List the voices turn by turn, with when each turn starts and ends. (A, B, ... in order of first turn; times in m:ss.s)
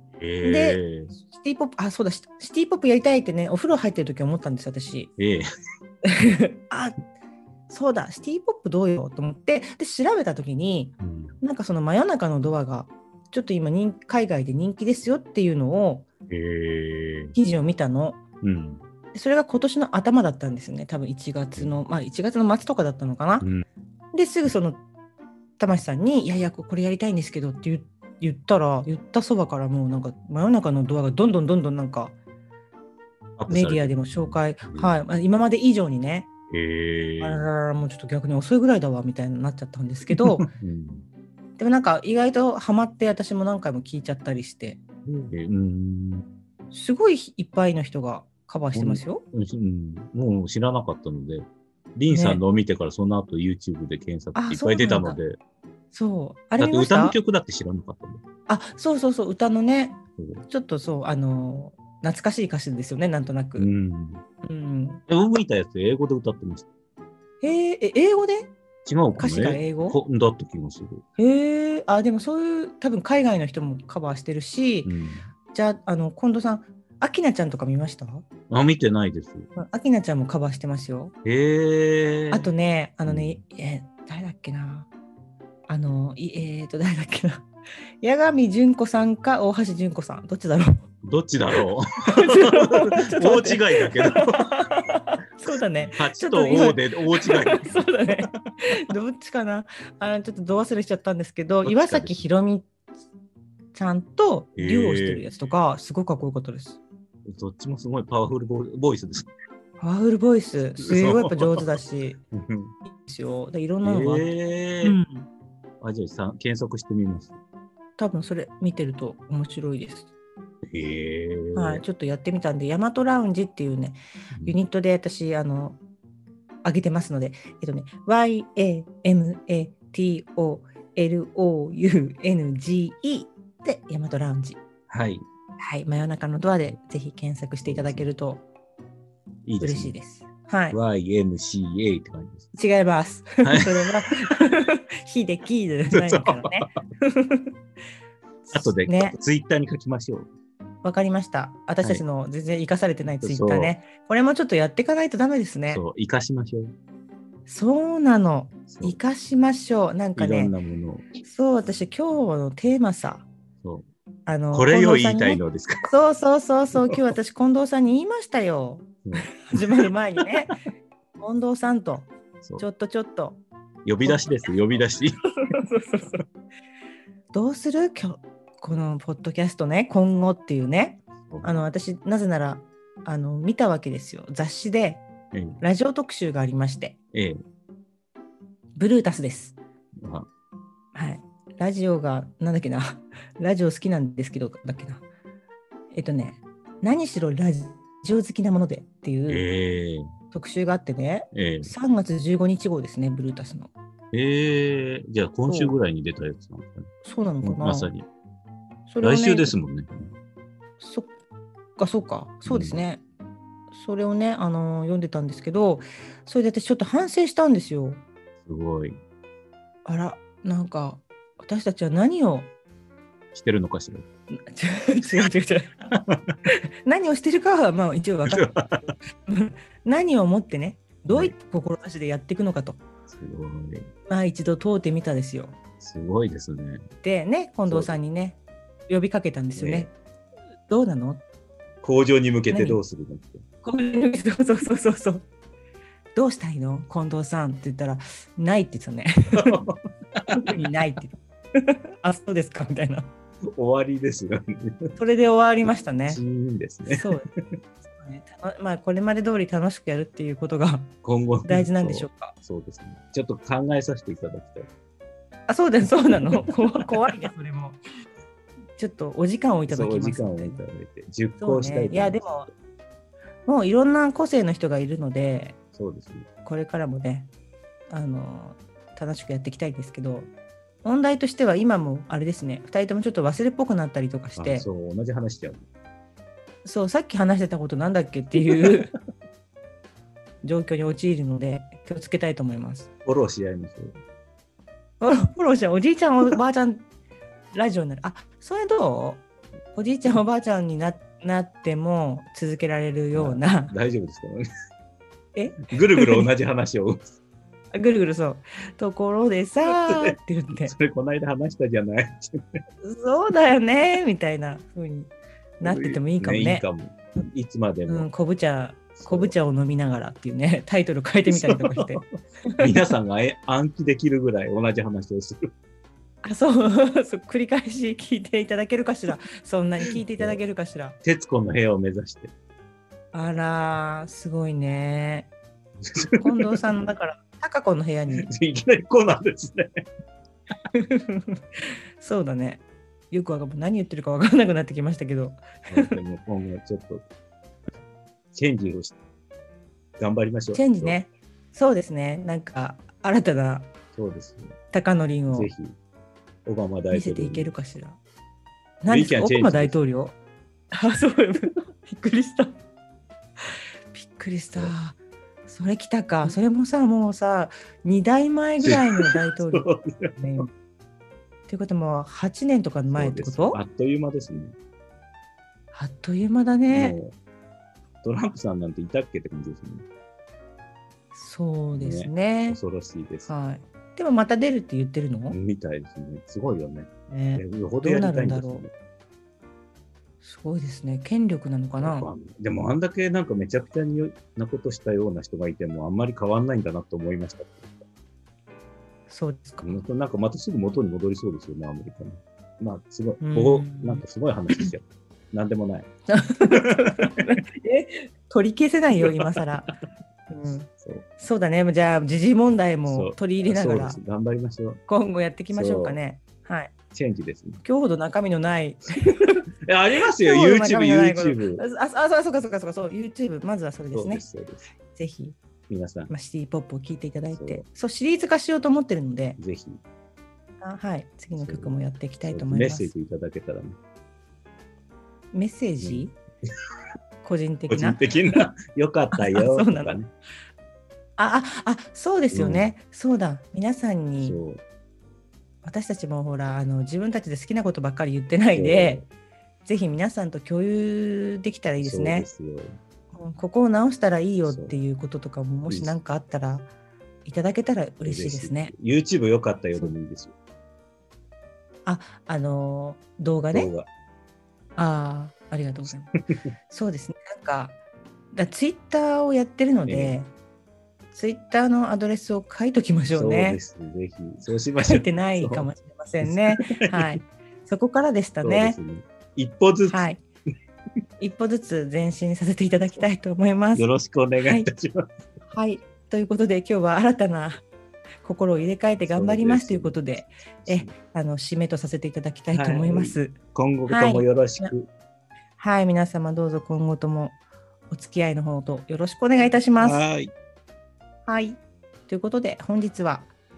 0:00.2-0:01.1 A
0:00.4-0:05.1 B
0:05.2-0:05.4 A
0:06.1-0:07.0 B
0:07.7-0:16.0 B
0:11.0-0:11.3 A
0:16.3-0:17.4 A
0:17.3-0:18.2 B
0:18.4-0:18.8 A
0:19.1-0:23.5 B
0:23.4-0:23.6 A
0:24.1-0:24.8 B
0:25.6-0:32.1 B
0:33.4-0:35.0 A
0:33.5-0:36.3 B
0:36.5-0:37.5 A
0:37.2-0:40.5 B
0:40.1-0:41.1 A
0:41.6-0:44.8 B
0:45.0-0:46.2 A
0:46.7-0:49.2 B
0:48.7-0:55.4 A
0:52.1-0:52.4 B
0:54.3-0:55.2 B
0:55.9-0:57.2 B
0:56.6-0:58.2 A
0:58.5-1:03.7 B
1:00.2-1:00.4 A
1:03.6-1:04.2 A
1:04.4-1:05.0 B
1:05.1-1:06.7 A
1:07.4-1:08.5 B
1:08.8-1:11.0 A
1:09.2-1:10.0 B
1:11.2-1:14.9 B
1:14.8-1:15.3 A
1:15.5-1:18.2 B
1:18.5-1:19.5 A
1:19.6-1:21.1 B
1:21.2-1:22.5 A
1:22.3-1:24.9 B
1:23.0-1:23.4 A
1:25.7-1:27.5 B
1:28.0-1:30.8 B
1:31.0-1:34.5 A
1:32.1-1:42.7 B
1:35.9-1:38.3 A
1:41.6-1:42.3 A
1:43.7-1:46.8 B
1:44.6-1:45.2 A
1:47.2-1:49.3 A
1:49.8-1:52.2 B
1:50.8-1:51.5 A
1:52.3-1:52.7 A
1:52.8-1:54.3 B
1:53.8-1:55.0 A
1:54.8-1:55.3 B
1:55.8-1:57.4 A
1:58.0-2:00.1 B
2:00.7-2:01.8 A
2:01.5-2:05.8 B
2:06.6-2:14.6 B
2:14.9-2:15.2 A
2:15.6-2:18.4 B
2:17.6-2:18.0 A
2:19.4-2:20.0 A
2:19.6-2:20.8 B
2:20.7-2:22.5 A
2:22.5-2:27.5 B
2:23.4-2:23.9 A
2:25.9-2:26.7 A
2:28.4-2:29.2 B
2:28.5-2:30.3 A
2:30.8-2:35.8 B
2:33.2-2:33.7 A
2:35.7-2:36.7 A
2:37.5-2:40.5 B
2:38.7-2:39.0 A
2:40.2-2:41.0 A
2:41.2-2:43.3 B
2:44.2-2:50.6 B
2:44.5-2:45.9 A
2:49.0-2:49.9 A
2:51.2-2:53.4 B
2:53.8-2:55.2 A
2:54.0-2:54.5 B
2:55.4-2:56.2 B
2:57.3-3:05.0 B
3:05.3-3:05.6 A
3:05.6-3:07.0 B
3:07.1-3:07.4 A
3:08.8-3:09.6 B
3:10.0-3:10.3 A
3:10.9-3:15.0 B
3:15.9-3:19.4 B
3:19.3-3:20.1 A
3:20.3-3:23.7 B
3:21.3-3:21.7 A
3:24.1-3:26.9 A
3:25.5-3:25.8 B
3:27.0-3:27.9 B
3:27.4-3:28.1 A
3:28.9-3:29.5 B
3:29.0-3:30.1 A
3:30.8-3:31.1 B
3:31.8-3:33.0 B
3:32.4-3:32.8 A
3:33.7-3:38.0 B
3:38.4-3:39.0 A
3:39.8-3:42.5 B
3:43.3-3:44.1 A
3:44.5-3:45.9 B
3:45.9-3:46.2 A
3:46.8-3:48.5 B
3:48.3-3:48.9 A
3:49.2-3:52.8 B
3:53.1-3:53.9 A
3:54.1-3:55.6 B
3:55.8-3:56.8 A
3:57.0-3:59.9 B
3:57.6-3:57.9 A
3:59.6-3:59.9 A
4:00.7-4:01.2 B
4:01.8-4:03.4 A
4:02.5-4:02.8 B
4:03.6-4:05.2 B
4:06.1-4:09.6 B
4:09.4-4:10.5 A
4:10.3-4:13.1 B
4:13.5-4:15.0 A
4:15.0-4:16.2 B
4:16.0-4:17.1 A
4:16.8-4:17.3 B
4:17.9-4:20.9 B
4:21.0-4:24.7 A
4:21.4-4:22.3 B
4:25.5-4:27.8 B
4:26.3-4:26.9 A
4:28.8-4:30.6 B
4:29.7-4:32.2 A
4:31.4-4:32.5 B
4:33.4-4:35.6 B
4:35.8-4:36.3 A
4:36.4-4:37.3 B
4:37.9-4:40.3 B
4:40.8-4:44.6 B
4:44.4-4:45.6 A
4:46.6-4:48.9 B
4:48.4-4:48.8 A
4:50.4-4:52.9 B
4:53.0-4:53.9 A
4:55.0-4:56.8 B
4:57.5-4:59.2 B
4:59.7-5:03.7 B
5:03.1-5:04.4 A
5:05.3-5:06.3 B
5:05.7-5:07.1 A
5:07.7-5:10.7 B
5:09.6-5:12.4 A
5:12.8-5:16.6 B
5:15.6-5:18.1 A
5:17.9-5:22.0 B
5:19.0-5:19.3 A
5:21.3-5:22.0 A
5:22.6-5:25.5 A
5:26.2-5:31.0 B
5:31.0-5:32.3 A
5:33.1-5:35.3 B
5:35.8-5:36.7 A
5:36.0-5:38.3 B
5:38.2-5:39.7 A
5:40.7-5:46.0 B
5:45.7-5:47.0 A
5:48.3-5:49.0 A
5:50.0-5:51.0 A
5:50.5-5:53.7 B
5:53.9-5:54.6 A
5:54.7-5:55.5 B
5:55.3-5:55.7 A
5:56.4-5:57.5 A
5:56.9-5:58.0 B
5:58.8-6:00.2 B
5:58.9-5:59.8 A
6:00.7-6:02.6 B
6:03.9-6:10.5 B
6:08.6-6:10.2 A
6:11.5-6:13.6 B
6:12.9-6:14.5 A
6:15.7-6:17.0 B
6:16.7-6:17.2 A
6:18.0-6:19.8 A
6:21.1-6:22.6 B
6:21.7-6:23.3 A
6:23.3-6:25.4 B
6:25.3-6:28.7 A
6:27.1-6:28.6 B
6:30.2-6:32.1 B
6:31.8-6:37.8 A
6:39.1-6:39.8 B
6:39.6-6:45.9 A
6:43.2-6:44.0 B
6:46.1-6:49.7 B
6:46.6-6:47.0 A
6:50.3-6:54.0 B
6:52.8-6:54.8 A
6:54.9-6:56.7 B
6:55.5-6:56.0 A
6:56.9-6:57.6 A
6:57.6-6:59.4 B
6:59.6-7:01.6 A
7:00.2-7:04.2 B
7:03.9-7:04.7 A
7:04.9-7:05.4 B
7:05.7-7:06.1 A
7:06.1-7:09.4 B
7:07.3-7:07.6 A
7:09.4-7:09.8 A
7:10.6-7:12.9 B
7:11.4-7:13.8 A
7:15.3-7:16.1 B
7:15.8-7:16.1 A
7:17.2-7:18.4 B
7:17.7-7:20.1 A
7:19.1-7:20.0 B
7:21.2-7:24.4 B
7:22.3-7:22.7 A
7:24.2-7:24.6 A
7:25.6-7:29.0 B
7:28.5-7:29.1 A
7:29.6-7:32.3 B
7:31.8-7:32.8 A
7:33.1-7:36.7 B
7:34.4-7:34.7 A
7:35.7-7:36.0 A
7:37.2-7:38.7 B
7:38.0-7:40.3 A
7:41.8-7:43.7 B
7:43.5-7:43.9 A
7:44.8-7:46.1 B
7:46.7-7:47.8 B
7:48.3-7:50.3 B
7:49.8-7:50.2 A
7:51.1-7:53.6 B
7:53.1-7:55.7 A
7:54.8-7:58.8 B
7:56.2-7:57.2 A
7:58.4-8:00.1 A
7:59.9-8:00.2 B
8:01.2-8:03.9 B
8:03.7-8:05.1 A
8:04.4-8:04.7 B
8:05.5-8:07.6 B
8:08.2-8:13.4 B
8:09.0-8:10.9 A
8:12.5-8:14.9 A
8:13.9-8:14.7 B
8:15.6-8:17.4 B
8:17.9-8:20.0 B
8:19.8-8:20.3 A
8:21.2-8:23.3 B